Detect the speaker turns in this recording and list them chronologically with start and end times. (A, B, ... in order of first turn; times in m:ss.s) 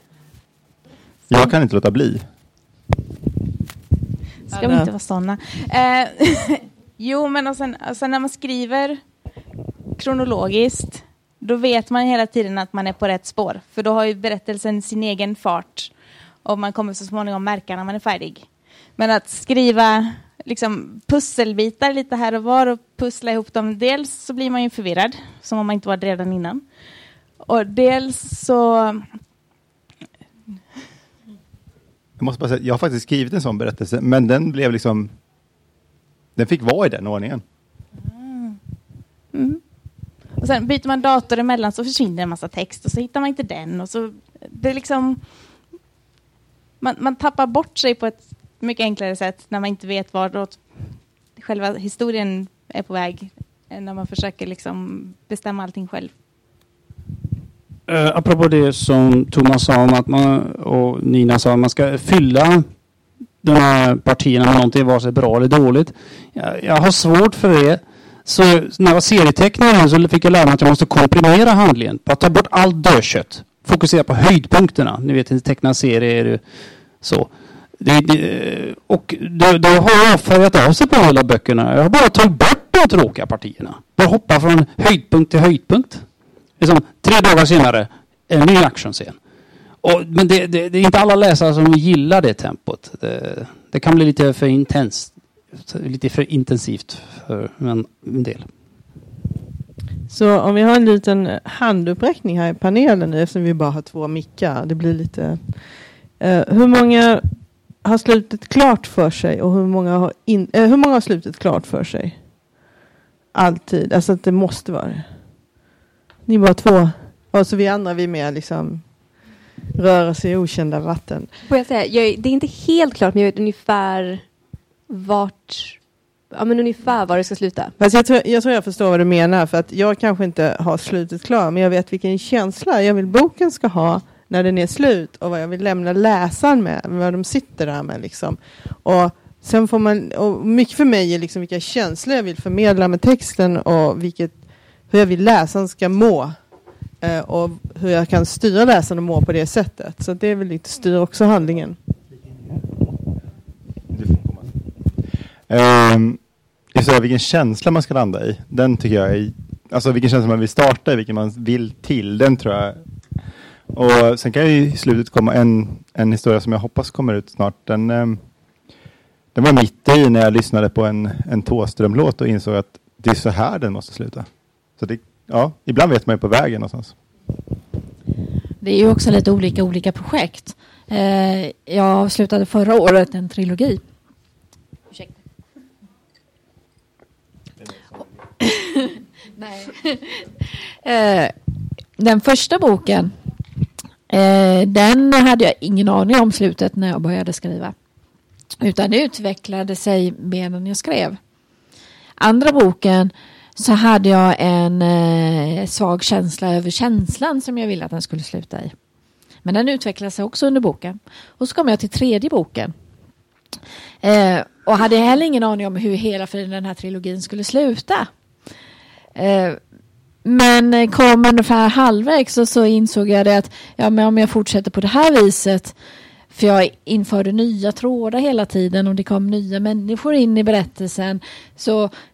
0:01.3-0:02.2 A
0:04.5-0:04.9 B
0:04.5-0:09.0 C
0:10.0-0:26.6 C
0:27.4-0:29.2 C
0:32.2-0:35.1 A
0:36.4-0:37.4 A
0:38.0-0:38.6 C
0:39.3-0:39.6 C
0:40.3-0:45.7 C
0:46.8-0:56.1 C
0:57.9-1:02.6 D
1:03.4-1:16.4 D
1:17.0-1:26.0 D
1:26.6-1:29.2 D
1:29.8-1:38.5 D
1:40.1-1:45.6 B
1:46.2-1:47.2 B
1:47.8-1:52.2 B
1:53.3-1:55.1 B
1:56.3-1:58.9 B
1:59.7-2:01.3 B
2:01.5-2:04.2 E
2:04.9-2:07.7 E
2:07.8-2:26.3 B
2:27.0-2:31.8 B
2:33.9-2:34.5 A
2:35.5-2:36.2 A
2:36.7-2:42.8 A
2:43.7-2:48.2 A
2:49.3-2:56.9 A
2:58.6-3:03.8 F
3:08.4-3:11.3 F
3:12.0-3:13.1 F
3:14.1-3:17.7 F
3:18.6-3:21.2 F
3:22.2-3:28.7 F
3:29.4-3:32.7 F
3:34.0-3:38.1 F
3:39.2-3:39.6 F
3:40.2-3:45.7 F
3:46.3-3:51.9 F